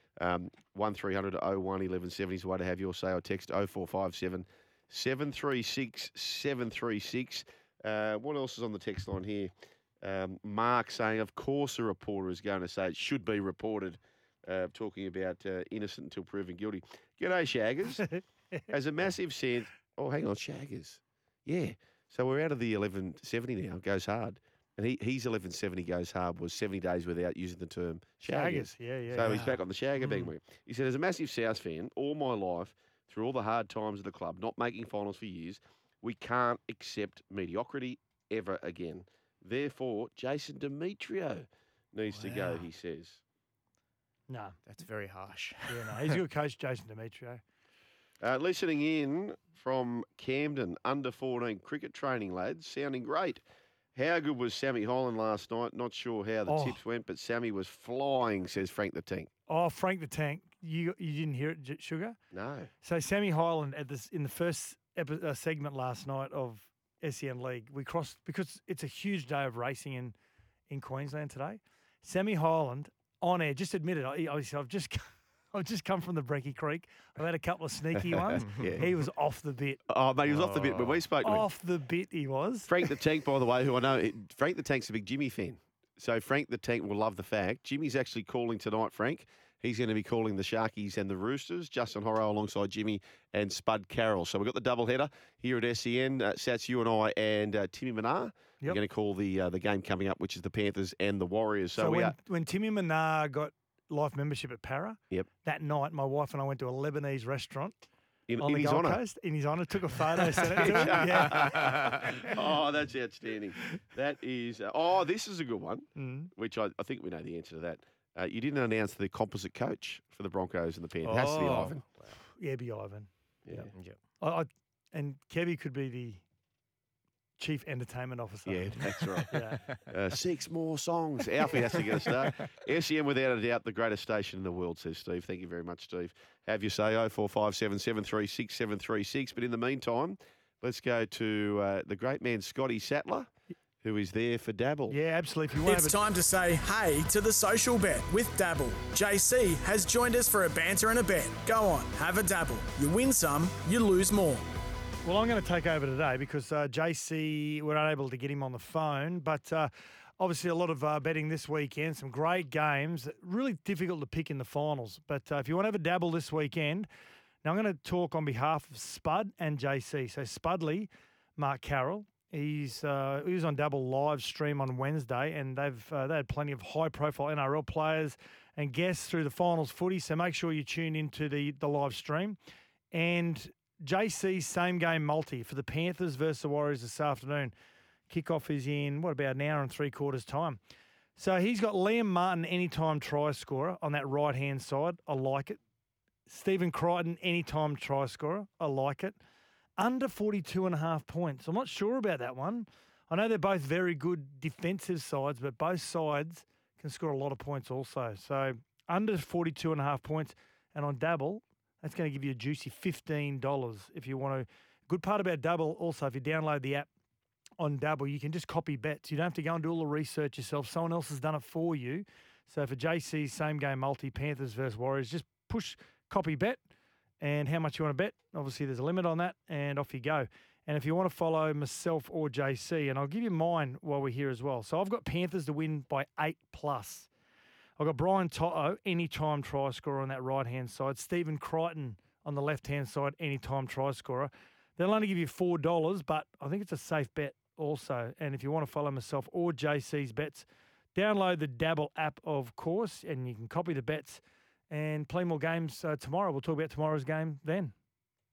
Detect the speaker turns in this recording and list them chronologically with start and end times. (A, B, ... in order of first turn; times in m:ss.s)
0:00.2-0:09.5 A
0:10.0-0:18.1 A
0:18.7-0:43.2 A
0:28.2-0:29.4 B
0:29.2-0:30.3 C
0:42.1-0:42.7 C
0:44.3-0:44.6 B
0:44.7-0:46.2 C
0:45.7-0:47.4 B
0:48.2-0:53.4 A
0:54.0-0:59.3 A
0:56.5-0:56.8 B
0:59.5-1:02.2 B
1:02.3-1:02.7 A
1:02.8-1:10.2 B
1:10.7-1:19.8 B
1:18.3-1:18.9 A
1:18.5-1:18.8 C
1:19.9-1:21.5 A
1:20.2-1:21.1 C
1:21.2-1:23.0 B
1:22.7-1:42.2 A
1:41.8-1:47.9 B
1:48.3-1:49.0 A
1:48.4-1:52.0 B
1:50.4-2:01.8 A
1:50.8-1:52.0 C
1:56.0-1:56.3 B
2:01.0-2:02.2 C
2:02.3-2:03.6 B
2:03.7-2:04.0 C
2:04.2-2:06.2 B
2:07.4-2:09.6 B
2:08.5-2:23.3 A
2:08.9-2:09.8 C
2:23.8-2:25.0 A
2:24.9-2:26.0 B
2:25.6-2:34.5 D
2:35.0-2:46.9 B
2:47.4-3:02.4 B
3:02.9-3:07.5 B
3:08.1-3:10.6 B
3:11.2-3:15.6 B
3:16.3-3:19.2 B
3:19.8-3:36.9 B
3:37.6-3:46.6 B
3:47.2-3:57.1 B
3:57.8-4:17.7 B